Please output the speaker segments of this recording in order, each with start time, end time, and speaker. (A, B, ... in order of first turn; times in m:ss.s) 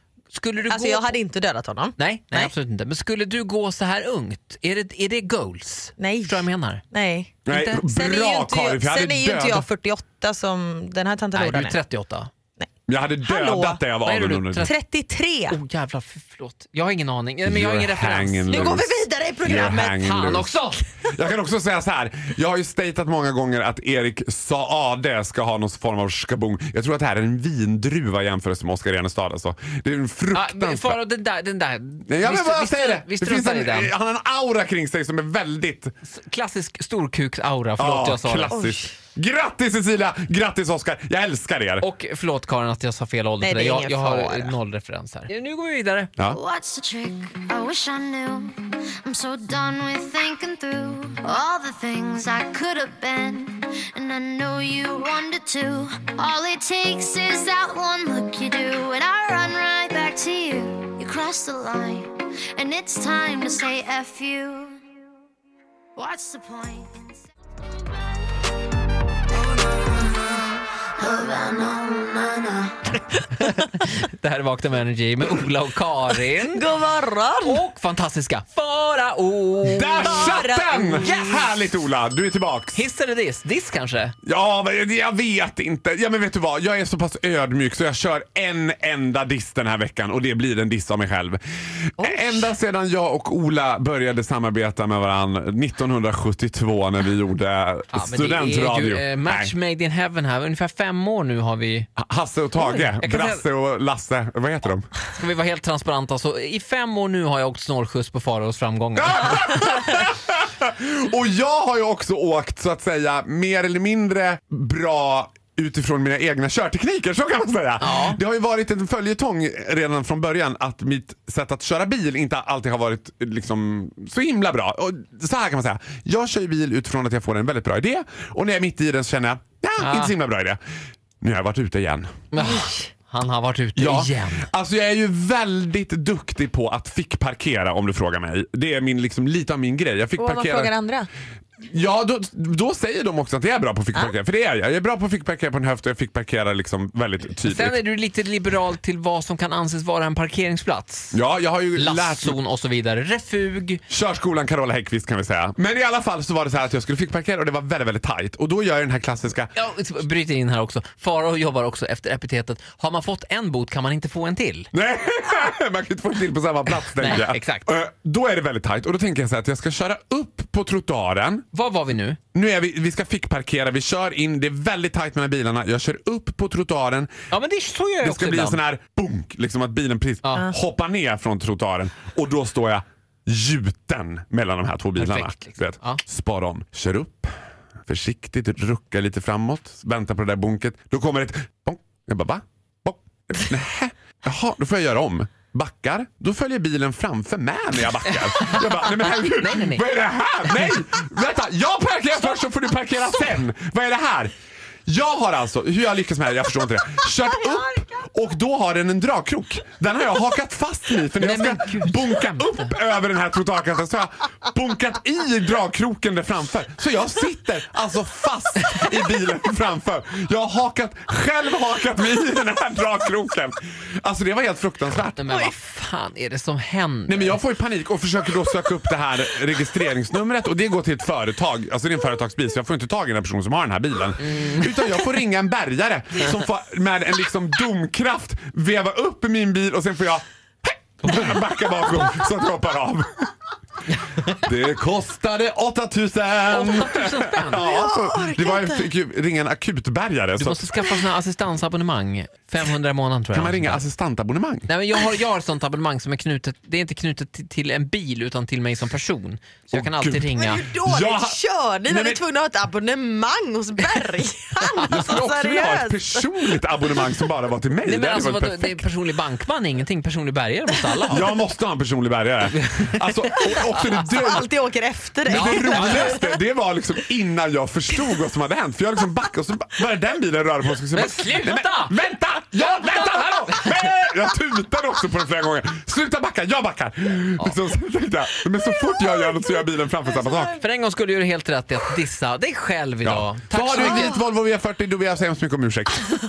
0:00.3-0:01.2 A
0:00.7-0:02.5 B
0:02.0-0:06.8 A
0:06.0-0:11.8 B
0:07.4-0:09.7 C
0:07.5-0:07.8 A
0:11.3-0:12.3 A
0:12.9-0:14.7 C
0:13.2-0:13.8 B
0:14.0-0:14.7 A
0:14.6-0:15.6 B
0:15.5-0:18.8 A
0:17.4-0:20.5 C
0:18.5-0:20.0 B
0:19.9-0:20.8 A
0:21.0-0:31.0 C
0:30.3-0:33.9 A
0:32.1-0:35.9 C
0:36.1-0:38.5 A
0:37.8-0:41.9 C
0:38.5-0:38.9 B
0:41.8-0:46.1 A
0:43.4-0:44.6 B
0:46.3-1:04.8 D
1:06.0-1:07.2 D
1:07.8-1:08.2 D
1:11.0-1:12.9 D
1:13.4-1:16.6 A
1:16.5-1:17.6 B
1:17.4-1:20.4 A
1:19.6-1:22.9 C
1:19.9-1:21.4 B
1:21.0-1:21.5 A
1:22.7-1:24.1 A
1:24.2-1:31.4 C
1:32.0-1:39.5 C
1:37.9-1:41.9 A
1:42.0-1:44.9 C
1:42.6-1:43.4 A
1:45.2-1:49.5 A
1:49.0-2:10.6 C
1:57.8-1:58.2 A
2:09.8-2:10.1 A
2:11.2-2:12.1 C
2:12.3-2:14.5 A
2:13.8-2:20.7 C
2:20.2-2:21.1 B
2:21.7-2:27.8 C
2:27.4-2:31.2 A
2:31.1-2:32.4 C
2:31.8-2:33.8 A
2:33.9-2:39.5 C
2:39.6-2:44.7 A
2:44.7-2:51.4 C
2:47.0-2:47.7 A
2:51.5-2:52.2 A
2:52.3-2:57.1 C
2:57.3-2:58.6 A
2:58.0-3:07.3 C
3:00.2-3:00.5 A
3:05.0-3:06.0 A
3:07.9-3:24.3 C
3:18.3-3:19.9 A
3:20.4-3:20.8 A
3:24.9-3:45.5 C
3:31.2-3:32.7 A
3:45.2-3:47.4 A
3:47.1-4:03.3 C
3:54.3-3:54.6 A
4:01.0-4:01.4 A
4:04.3-4:10.7 C
4:06.5-4:07.6 A
4:07.5-4:08.9 B
4:10.4-4:13.8 A
4:13.3-4:14.7 C
4:14.7-4:20.6 A
4:19.7-4:22.2 C
4:20.4-4:27.0 B
4:24.8-4:28.8 C
4:27.8-4:31.2 A
4:31.1-4:34.5 C
4:33.9-4:36.2 B
4:35.2-4:50.6 C
4:35.3-4:36.2 A
4:40.9-4:41.9 A
4:50.5-4:54.2 A
4:53.0-4:56.1 C